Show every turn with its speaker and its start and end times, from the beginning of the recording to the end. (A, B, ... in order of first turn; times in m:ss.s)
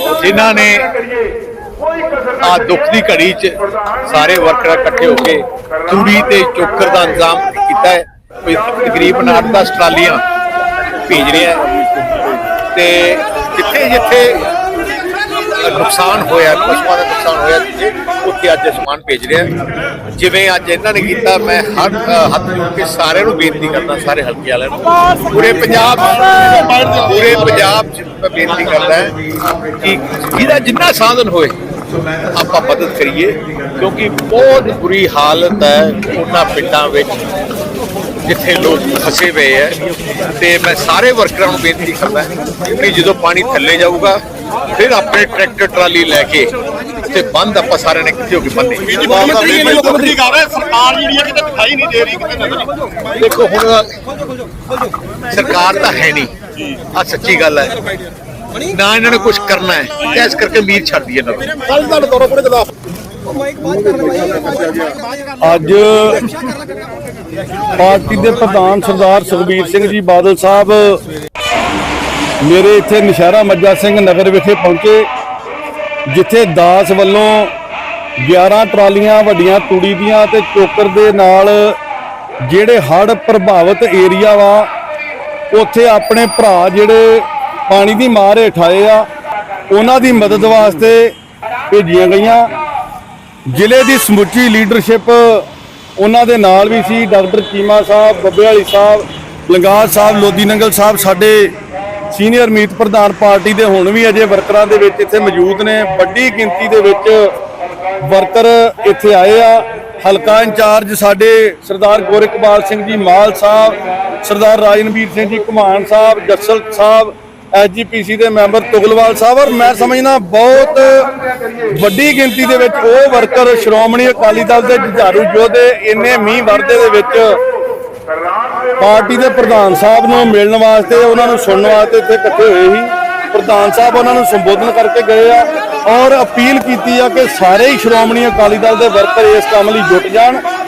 0:00.2-0:00.8 A
0:02.4-0:10.2 A
0:11.0-0:11.7 A
0:12.7-0:14.5 A
0:15.6-0:19.5 A
0:20.1-0:29.1 A
0:29.8-0:31.5 A
0:32.3-0:37.2 A
0:38.2-0:39.8 A
0:40.4-0:44.2 A
0:44.7-0:46.5 A
0:47.0-0:50.1 A
0:49.0-0:50.1 B
0:49.2-0:52.7 C
0:53.2-0:53.9 A
0:55.3-0:57.7 A
0:58.7-1:01.6 A
1:01.7-1:02.6 C
1:03.6-1:05.0 C
1:05.4-1:06.3 B
1:07.8-1:11.0 B
1:12.4-1:15.0 B
1:16.1-1:17.5 B
1:18.2-1:21.8 B
1:22.4-1:24.7 B
1:25.5-1:29.0 B
1:29.7-1:31.1 B
1:31.7-1:32.5 B
1:33.5-1:35.4 B
1:36.0-1:41.5 B
1:42.1-1:47.3 B
1:48.0-2:01.1 B
2:01.7-2:07.4 B
2:08.8-2:20.4 B